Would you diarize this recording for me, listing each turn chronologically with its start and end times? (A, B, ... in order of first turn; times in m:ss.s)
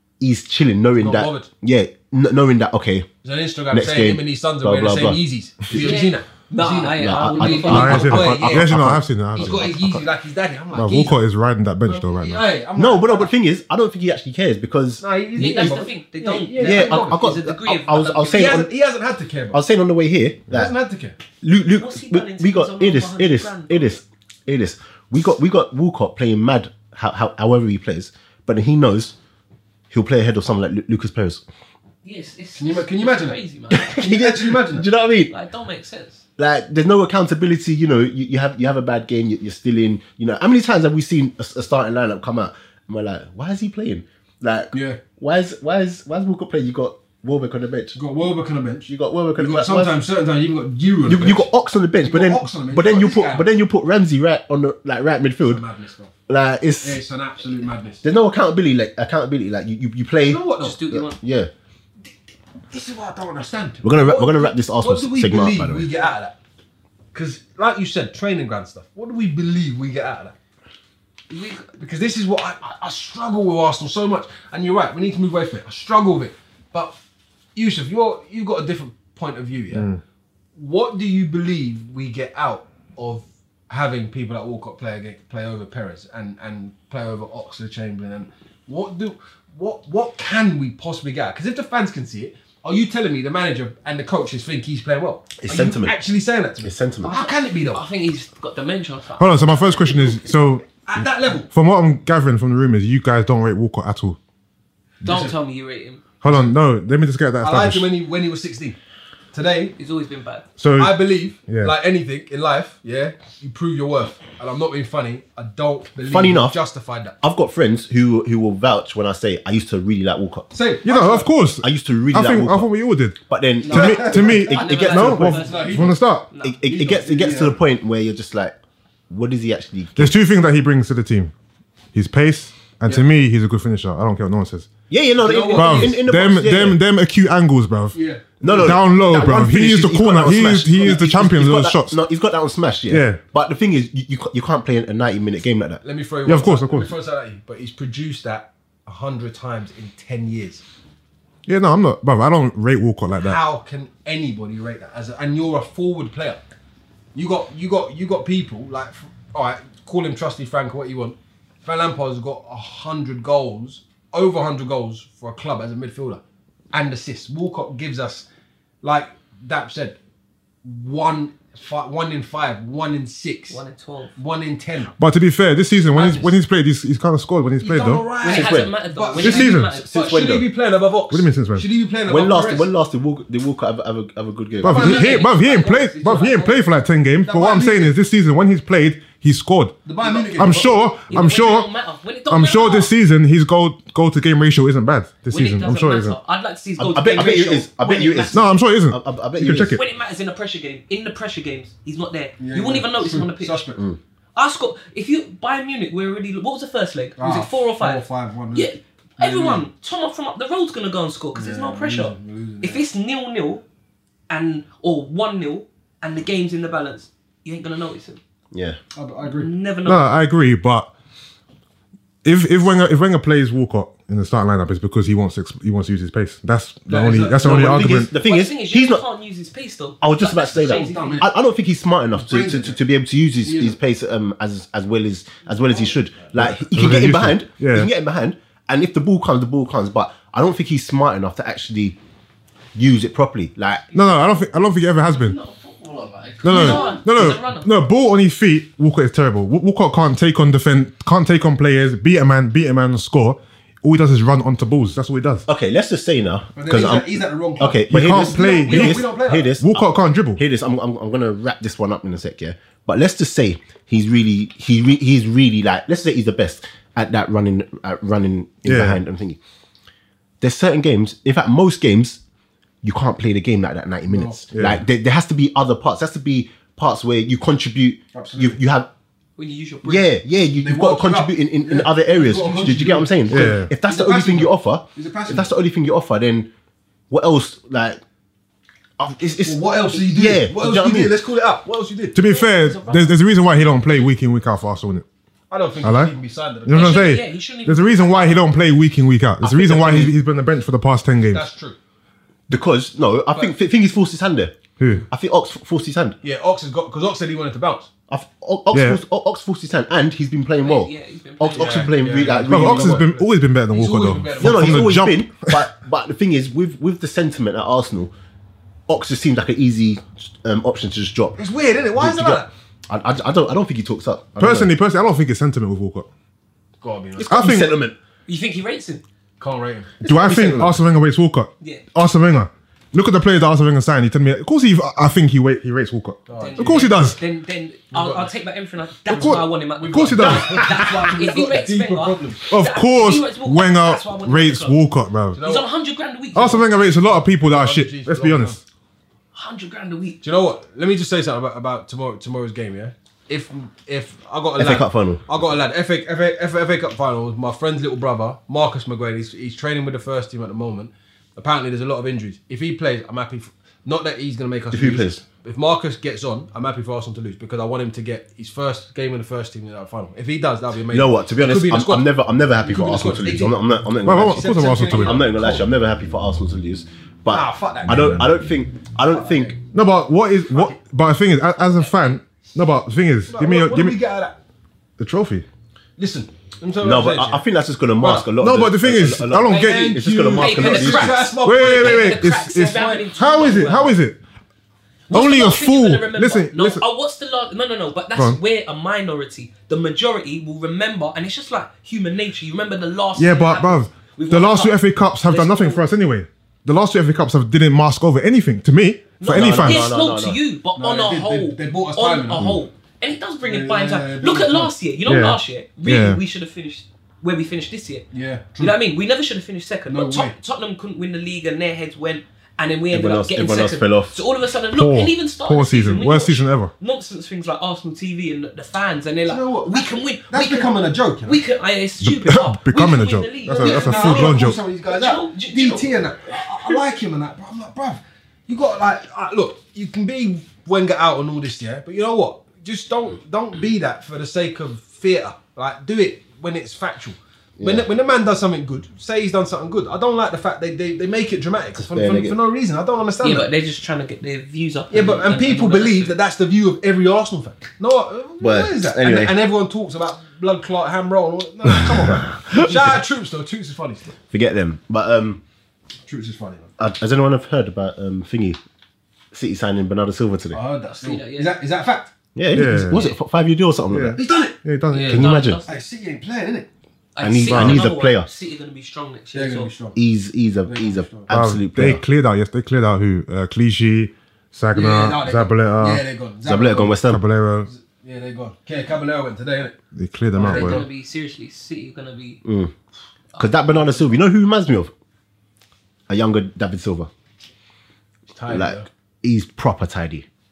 0:00.2-0:03.1 A
0:01.0-0:01.5 B
0:03.2-0:11.2 B
0:03.7-0:05.2 A
0:05.7-0:08.4 C
0:07.0-0:10.0 A
0:07.7-0:10.0 D
0:10.7-0:12.5 D
0:11.9-0:13.3 B
0:12.8-0:15.8 A
0:15.0-0:17.3 B
0:15.4-0:18.6 C
0:16.6-0:18.7 A
0:18.3-0:19.6 B
0:19.5-0:20.7 A
0:20.5-0:21.2 B
0:21.4-0:29.2 A
0:21.8-0:23.9 C
0:29.9-0:31.4 A
0:32.0-0:34.0 C
0:32.6-0:34.9 B
0:33.7-0:35.3 A
0:35.3-0:36.2 C
0:36.4-0:48.0 A
0:44.7-0:45.0 B
0:48.0-0:51.5 B
0:48.9-0:50.0 A
0:51.1-0:55.6 A
0:52.0-0:53.5 B
0:55.4-0:56.1 B
0:56.3-0:57.0 A
0:56.8-0:58.0 B
0:58.0-1:01.5 A
1:00.3-1:00.8 B
1:00.6-1:01.2 C
1:02.7-1:06.4 B
1:03.8-1:05.9 A
1:07.1-1:10.3 B
1:11.3-1:11.7 C
1:11.8-1:17.0 B
1:17.6-1:19.9 B
1:19.7-1:20.0 D
1:20.6-1:37.8 B
1:35.4-1:36.0 A
1:36.6-1:37.1 A
1:37.0-1:40.2 C
1:39.2-1:44.2 D
1:40.8-1:41.5 B
1:45.0-1:45.4 B
1:45.0-1:46.0 C
1:46.2-1:47.9 D
1:46.2-1:46.5 B
1:47.4-1:48.8 B
1:49.3-1:49.8 B
1:49.8-1:50.5 C
1:50.6-1:51.8 D
1:50.8-1:57.2 B
1:56.0-1:56.6 A
1:57.2-2:00.5 A
2:00.5-2:01.3 B
2:00.8-2:03.2 D
2:01.6-2:02.7 A
2:03.3-2:05.4 A
2:03.7-2:06.6 C
2:03.7-2:06.0 B
2:03.7-2:06.3 D
2:06.4-2:08.6 A
2:06.6-2:07.6 B
2:09.1-2:10.2 A
2:10.0-2:11.3 D
2:11.9-2:14.7 D
2:14.9-2:16.8 A
2:15.2-2:16.0 B
2:15.5-2:22.0 D
2:17.9-2:18.8 B
2:18.4-2:25.8 A
2:22.9-2:23.2 D
2:25.8-2:30.6 B
2:26.3-2:26.9 D
2:31.5-2:33.4 D
2:33.2-2:36.4 B
2:37.1-2:46.2 B
2:46.7-2:48.2 B
2:48.8-2:50.0 B
2:50.6-2:53.6 B
2:53.5-2:54.1 C
2:54.2-2:54.9 B
2:55.0-2:58.0 D
2:55.9-2:56.4 B
2:57.6-3:02.7 B
2:58.2-2:59.9 C
2:58.3-2:58.7 A
2:59.2-2:59.7 D
2:59.7-3:00.5 A
3:01.1-3:01.7 D
3:02.1-3:05.2 A
3:04.6-3:11.7 D
3:04.6-3:05.3 B
3:04.7-3:06.6 C
3:07.2-3:08.0 B
3:09.8-3:10.8 B
3:11.1-3:12.9 C
3:12.3-3:16.2 D
3:15.3-3:18.4 C
3:16.8-3:19.8 A
3:18.3-3:19.8 D
3:19.7-3:23.6 C
3:22.4-3:23.8 B
3:24.4-3:33.6 C
3:27.2-3:29.7 B
3:31.4-3:32.8 B
3:34.3-3:38.2 C
3:38.5-3:38.8 A
3:39.0-3:39.5 B
3:39.2-3:40.1 C
3:39.8-3:40.9 D
3:42.2-3:48.1 D
3:46.9-3:48.0 B
3:47.4-3:49.0 A
3:48.1-3:51.3 C
3:50.0-4:02.0 A
3:50.6-3:51.3 B
3:52.1-3:52.8 B
3:53.4-3:53.8 B
3:56.4-3:57.9 D
4:02.8-4:03.9 A
4:03.9-4:05.4 D
4:05.1-4:07.7 C
4:06.4-4:15.5 D
4:06.5-4:07.0 B
4:15.5-4:29.4 A
4:16.6-4:19.6 B
4:17.9-4:20.4 D
4:28.6-4:29.0 D
4:30.4-4:32.2 A
4:32.8-4:38.9 A
4:34.1-4:34.4 B
4:34.5-4:34.8 D
4:38.1-4:38.6 B
4:39.4-4:40.1 C
4:39.8-4:46.5 A
4:40.6-4:45.5 B
4:43.3-4:43.7 D
4:47.1-4:48.0 A
4:49.0-4:51.1 A
4:49.4-4:52.2 B
4:52.2-4:55.0 D
4:52.2-4:53.2 C
4:55.5-4:57.0 B
4:55.8-4:56.1 D
4:56.7-5:01.4 D
4:56.7-4:58.5 C
4:59.4-5:00.1 A
5:01.3-5:01.8 B
5:02.5-5:04.6 A
5:04.8-5:05.0 D
5:05.1-5:06.2 A
5:06.2-5:07.9 B
5:08.1-5:13.0 A
5:08.7-5:09.0 D
5:10.6-5:12.0 C
5:11.5-5:15.0 B
5:12.5-5:15.6 D
5:14.4-5:18.1 A
5:18.9-5:21.4 A
5:21.4-5:22.5 B
5:22.0-5:24.7 A
5:24.4-5:26.1 D
5:26.8-5:27.6 B
5:27.2-5:28.0 A
5:27.3-5:27.7 D
5:28.3-5:29.0 C
5:29.4-5:30.0 B
5:30.0-5:30.8 A
5:30.0-5:37.2 D
5:36.3-5:36.9 B
5:36.4-5:44.8 C
5:37.9-5:38.3 B
5:39.1-5:41.1 D
5:39.1-5:42.5 B
5:42.5-5:45.4 D
5:45.3-5:45.7 B
5:45.4-5:46.7 C
5:46.4-5:48.6 D
5:47.0-5:48.6 B
5:49.3-5:50.2 C
5:50.2-6:15.7 B
5:54.6-5:55.2 A
6:04.7-6:05.2 A
6:10.9-6:19.6 A
6:14.0-6:15.2 D
6:17.3-6:18.3 B
6:19.1-6:19.6 B
6:19.7-6:24.0 D
6:20.5-6:20.8 B
6:21.8-6:22.2 C
6:23.3-6:24.4 B
6:25.0-6:25.4 D
6:26.0-6:27.4 B
6:26.8-6:31.3 A
6:28.0-6:28.3 B
6:28.4-6:30.0 D
6:29.5-6:33.6 B
6:30.3-6:34.0 C
6:31.4-6:34.2 D
6:35.1-6:45.8 C
6:35.1-6:36.8 D
6:43.2-6:49.9 D
6:49.2-6:58.0 C
6:49.3-6:50.4 A
6:50.8-6:52.5 B
6:53.4-6:54.7 B
6:55.1-6:56.2 D
6:58.1-6:58.8 B
6:58.6-7:10.7 C
6:59.9-7:00.4 B
7:02.9-7:04.2 A
7:04.7-7:06.7 D
7:09.3-7:11.4 B
7:11.2-7:16.8 C
7:12.0-7:14.6 D
7:13.5-7:33.5 B
7:27.6-7:27.9 A
7:31.8-7:32.4 A
7:33.2-7:36.2 C
7:34.9-7:44.1 B
7:38.4-7:39.3 A
7:42.2-7:42.8 A
7:44.3-7:45.4 A
7:46.1-7:46.7 B
7:46.8-7:48.6 A
7:49.3-7:50.6 A
7:50.5-7:52.1 B
7:50.9-7:51.5 C
7:52.4-7:54.2 A
7:52.5-7:53.0 D
7:52.9-7:53.2 C
7:53.9-7:55.3 D
7:54.2-7:54.6 B
7:54.9-7:55.8 C
7:55.0-7:55.6 A
7:55.7-7:56.7 B
7:57.2-7:59.7 C
7:57.2-7:58.3 A
7:57.5-7:57.8 D
7:59.3-8:00.0 B
8:00.0-8:02.0 A
8:00.6-8:01.3 B
8:01.3-8:06.0 D
8:04.7-8:07.0 B
8:06.5-8:07.2 A
8:07.0-8:07.7 D
8:07.7-8:09.8 B
8:10.0-8:10.8 D
8:10.4-8:10.9 B
8:10.4-8:12.4 C
8:12.4-8:12.7 A
8:13.3-8:14.0 C
8:13.4-8:14.9 A
8:16.1-8:17.1 A
8:18.3-8:18.9 B
8:18.5-8:20.3 A